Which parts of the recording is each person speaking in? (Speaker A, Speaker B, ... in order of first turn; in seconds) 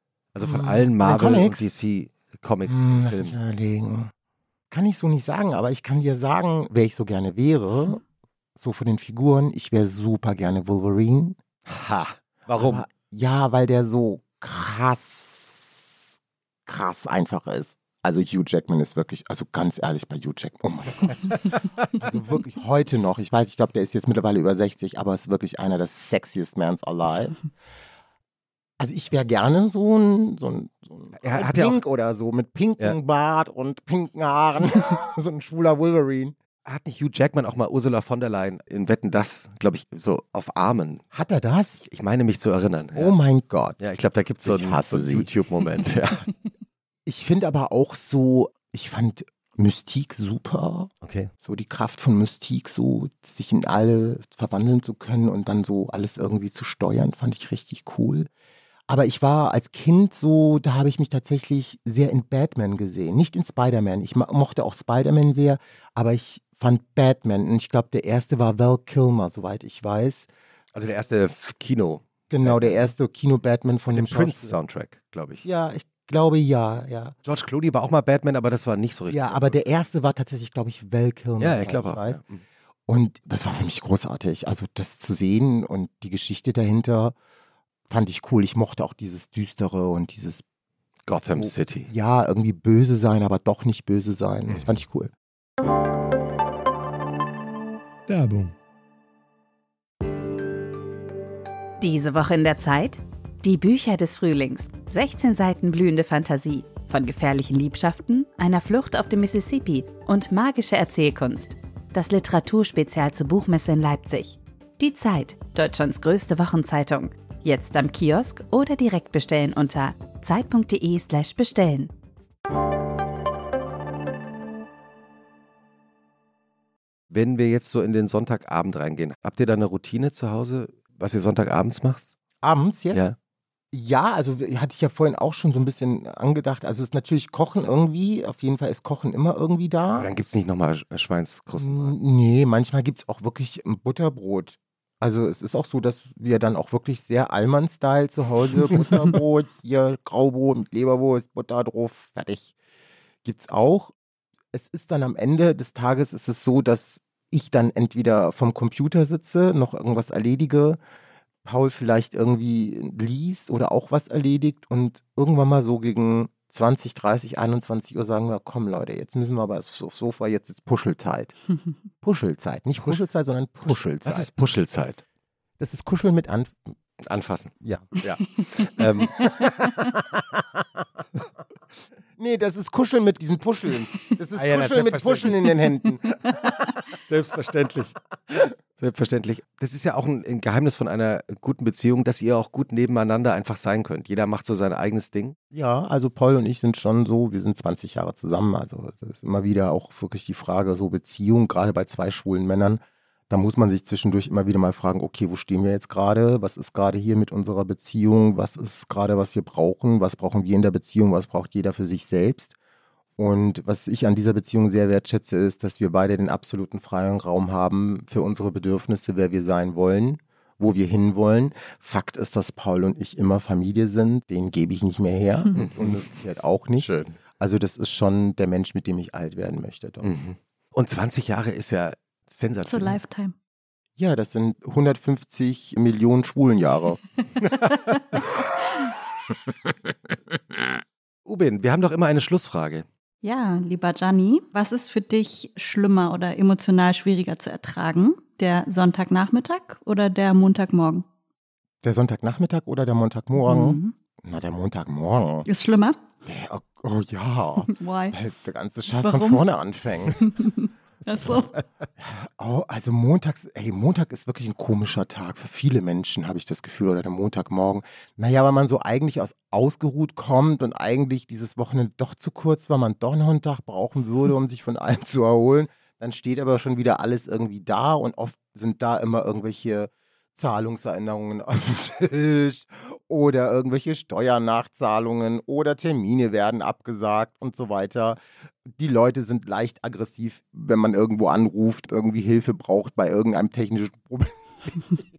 Speaker A: 0.3-3.4, 11.7-12.8, 31.2-31.8, 36.7-41.0, 41.8-43.1, 43.8-46.3, 51.0-51.3, 70.7-72.9, 73.9-75.5, 77.2-79.6, 81.4-82.4, 91.1-91.9, 98.1-98.5, 127.1-132.1, 139.9-141.9, 173.7-175.0, 177.0-179.4, 184.3-185.5, 187.0-188.0, 188.8-195.4, 225.5-226.1, 226.8-227.2, 230.0-233.0, 241.2-242.8
Speaker B: 0.4-1.7, 2.7-4.1, 4.7-8.0, 8.6-11.4, 12.6-16.0, 16.7-27.4, 28.8-36.4, 41.1-41.8, 42.9-43.9, 44.4-45.3, 47.1-50.9, 51.4-58.3, 58.9-70.3, 72.3-74.6, 75.4-77.2, 79.1-82.2, 82.9-87.2, 87.9-90.4, 91.3-95.1, 132.4-133.1, 133.7-140.1, 141.6-152.5, 153.2-153.9, 154.5-160.8, 161.4-171.4, 172.0-174.3, 175.6-176.8, 177.6-177.9, 179.0-180.9, 182.2-186.8, 195.5-212.6, 213.2-230.2, 234.0-237.0, 238.1-238.5, 239.3-239.9, 251.8-255.5, 256.2-260.3, 262.0-294.9
Speaker C: 101.8-121.9
Speaker D: 232.7-233.3, 243.2-251.1, 253.4-253.9, 255.5-256.0, 257.7-258.2, 259.0-259.4, 260.2-261.5